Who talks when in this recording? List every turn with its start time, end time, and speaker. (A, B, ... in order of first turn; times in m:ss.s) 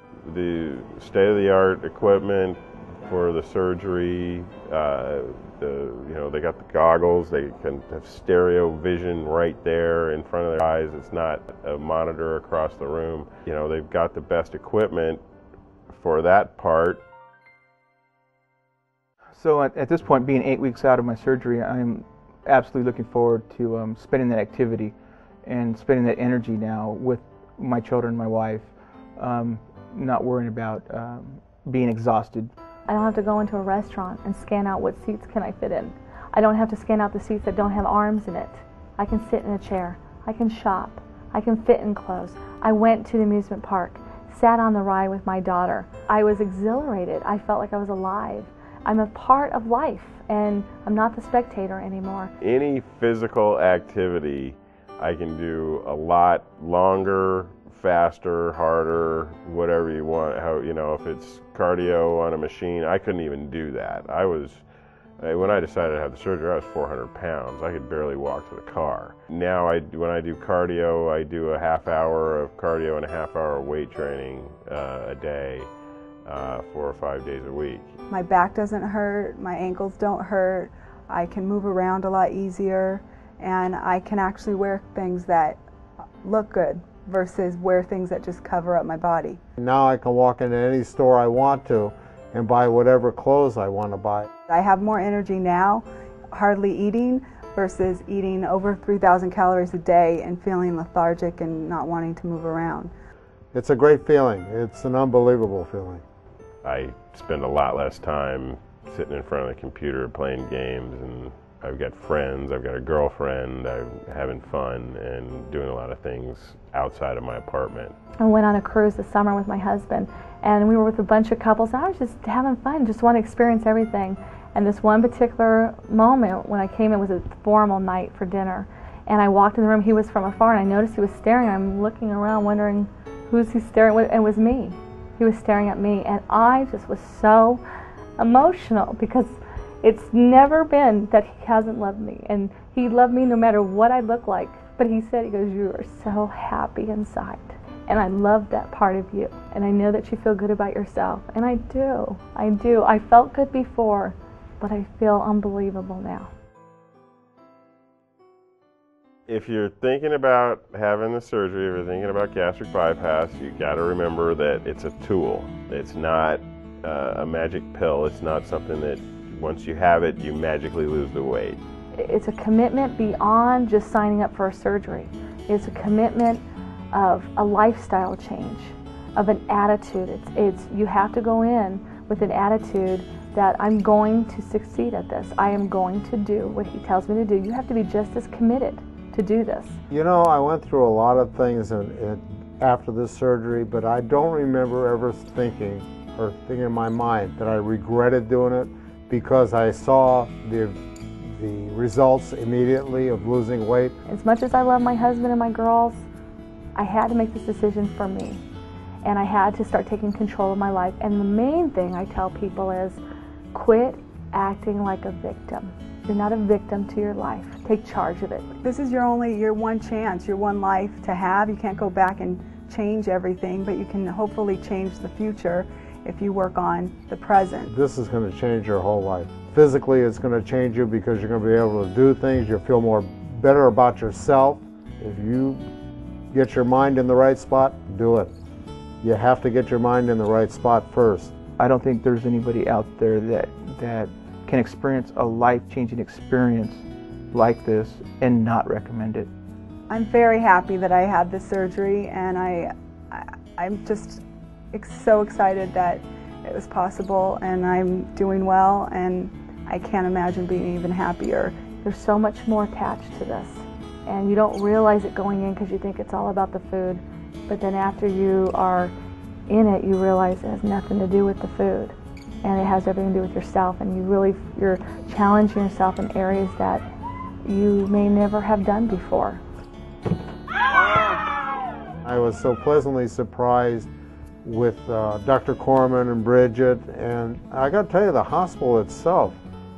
0:00.2-0:15.2 A
0:15.9-0:17.0 A
0:19.3-0:32.5 B
0:32.9-0:52.3 C
0:52.4-1:04.6 A
1:05.2-1:15.7 A
1:16.2-1:17.9 A
1:18.1-1:25.6 D
1:26.2-1:29.4 D
1:29.6-1:34.3 E
1:34.5-1:42.9 D
1:43.5-1:46.0 E
1:46.6-1:58.0 A
1:58.2-2:17.6 C
2:18.2-2:36.3 C
2:39.3-2:51.6 A
2:52.0-3:09.8 C
3:09.9-3:24.0 E
3:24.1-3:26.1 C
3:26.8-3:28.4 C
3:29.0-3:33.0 C
3:33.5-3:38.5 C
3:38.6-3:47.7 D
3:47.7-3:55.6 E
3:56.3-3:58.3 E
3:59.0-4:01.3 E
4:01.6-4:09.3 B
4:09.9-4:21.6 D
4:21.8-4:28.9 C
4:29.5-4:36.8 C
4:37.4-4:39.4 C
4:42.0-4:43.9 E
4:44.4-4:49.4 E